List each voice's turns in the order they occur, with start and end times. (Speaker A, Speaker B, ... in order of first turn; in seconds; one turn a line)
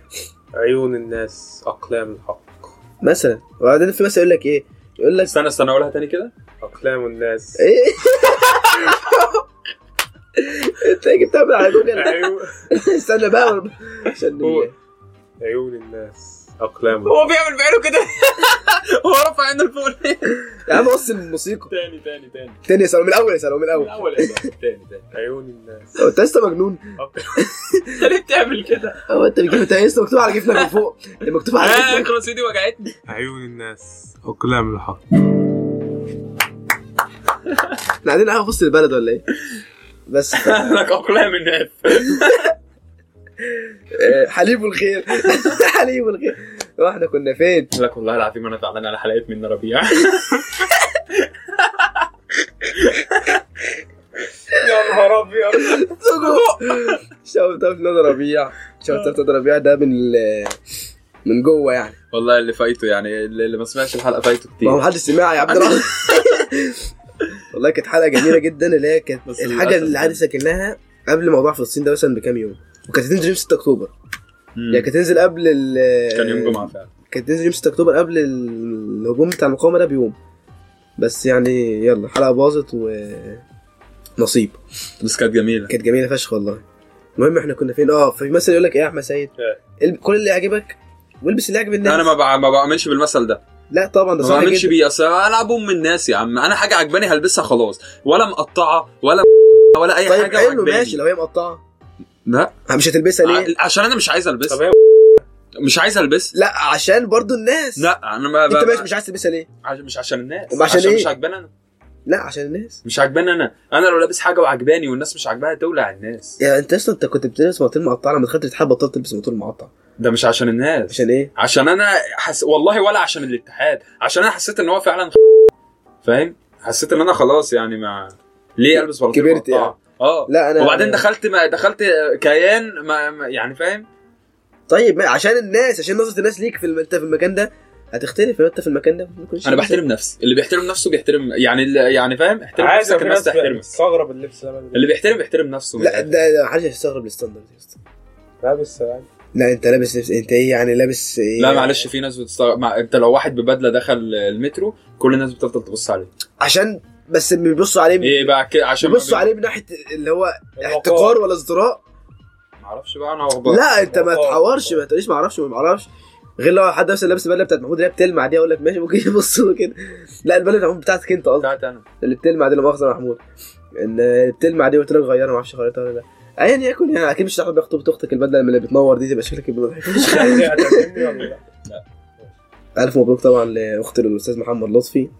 Speaker A: 0.5-2.7
Speaker B: 3.0-5.3
Speaker C: 5.3-6.3
Speaker A: 6.6-7.6
Speaker B: 7.6-9.1
Speaker C: 8.8-9.2
Speaker B: 10.4-14.7
Speaker A: 11.9-12.6
Speaker C: 14.4-14.7
Speaker A: 15.4-17.2
Speaker C: 17.0-20.4
Speaker B: 20.6-21.7
Speaker C: 21.7-22.6
Speaker B: 22.6-24.5
Speaker C: 23.7-25.1
Speaker A: 25.1-26.0
Speaker B: 26.0-26.8
Speaker A: 27.0-27.3
Speaker B: 27.3-27.9
Speaker C: 28.0-29.0
Speaker B: 29.1-32.1
Speaker C: 31.6-33.0
Speaker A: 33.1-35.0
Speaker B: 38.0-39.2
Speaker B: 40.1-40.7
Speaker C: 40.3-42.5
Speaker B: 43.9-47.7
Speaker C: 47.7-52.1
Speaker C: 52.7-53.3
Speaker A: 54.5-55.8
Speaker B: 55.6-60.6
Speaker C: 56.1-57.0
Speaker B: 61.2-62.0
Speaker C: 62.1-64.8
Speaker B: 64.6-66.9
Speaker C: 65.5-65.9
Speaker B: 67.5-73.9
Speaker C: 69.2-70.2
Speaker C: 74.5-74.9
Speaker B: 74.7-80.2
Speaker C: 76.1-76.9
Speaker B: 81.0-83.4
Speaker B: 84.2-84.6
Speaker C: 85.0-85.7
Speaker B: 85.7-86.6
Speaker B: 87.2-92.1
Speaker C: 91.8-93.4
Speaker B: 93.7-94.7
Speaker C: 94.2-101.0
Speaker B: 100.0-101.6
Speaker C: 102.2-102.5
Speaker B: 102.7-103.5
Speaker C: 103.2-104.6
Speaker A: 104.5-105.2
Speaker C: 105.6-106.3
Speaker B: 106.3-107.9
Speaker C: 107.8-108.9
Speaker B: 108.5-109.5
Speaker C: 109.6-111.5
Speaker B: 110.5-111.1
Speaker B: 112.0-112.8
Speaker C: 112.8-116.4
Speaker B: 116.4-119.7
Speaker C: 120.0-125.2
Speaker B: 120.9-121.3
Speaker C: 126.0-133.9
Speaker B: 128.7-129.7
Speaker B: 130.3-131.0
Speaker B: 134.7-139.8
Speaker C: 139.4-143.7
Speaker A: 142.6-144.9
Speaker C: 144.7-146.1
Speaker B: 145.8-147.8
Speaker A: 148.4-149.1
Speaker B: 149.3-151.8
Speaker C: 151.4-156.1
Speaker B: 156.4-161.8
Speaker C: 158.0-159.3
Speaker A: 160.6-161.2
Speaker C: 162.6-163.6
Speaker B: 163.4-165.9
Speaker A: 163.8-164.8
Speaker B: 166.4-173.2
Speaker C: 171.4-171.8
Speaker B: 173.7-181.0
Speaker A: 179.9-181.4
Speaker B: 182.8-185.1